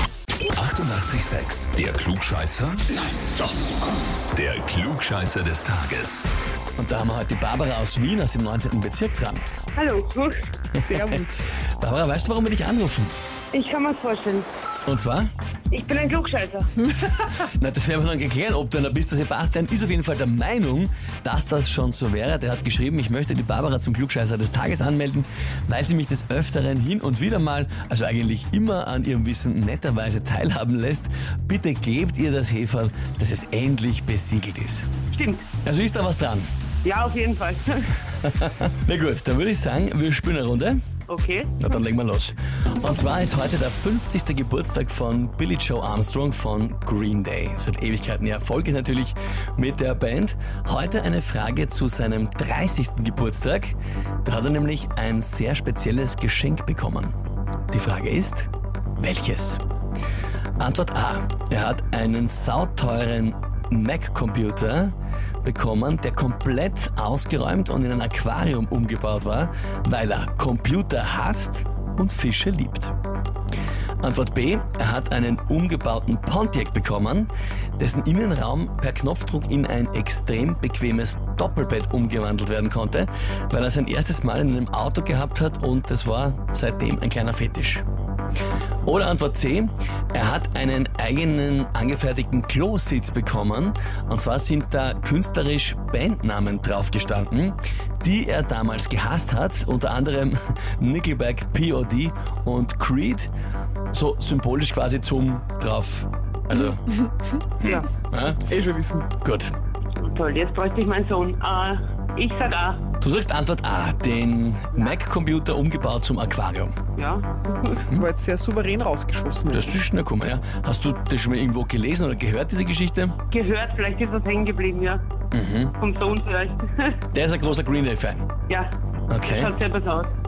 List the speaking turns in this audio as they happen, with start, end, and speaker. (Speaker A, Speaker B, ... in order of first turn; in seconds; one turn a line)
Speaker A: 0.5-2.9
Speaker A: 4.3-6.3
Speaker B: 6.8-9.4
Speaker C: 9.8-10.4
Speaker D: 10.7-11.4
Speaker B: 10.8-11.2
Speaker B: 11.8-13.1
Speaker C: 13.5-14.5
Speaker B: 14.9-15.3
Speaker C: 15.7-16.9
Speaker B: 17.2-34.9
Speaker C: 35.1-35.5
Speaker B: 35.6-36.5
Speaker C: 36.8-37.9
Speaker B: 38.2-40.8
Speaker C: 41.1-41.7
Speaker B: 41.6-57.1
Speaker B: 57.7-59.6
Speaker B: 60.6-72.9
Speaker B: 74.0-87.8
Speaker B: 88.8-103.3
Speaker B: 103.9-107.0
Speaker B: 107.6-108.4
Speaker D: 108.5-109.1
Speaker B: 109.2-109.5
Speaker C: 110.0-112.8
Speaker B: 113.0-116.8
Speaker C: 117.0-117.8
Speaker D: 117.9-119.8
Speaker B: 119.5-123.2
Speaker C: 123.3-125.0
Speaker B: 125.3-125.8
Speaker C: 125.8-127.0
Speaker B: 127.1-128.3
Speaker C: 128.5-128.7
Speaker B: 129.1-129.5
Speaker C: 129.2-130.1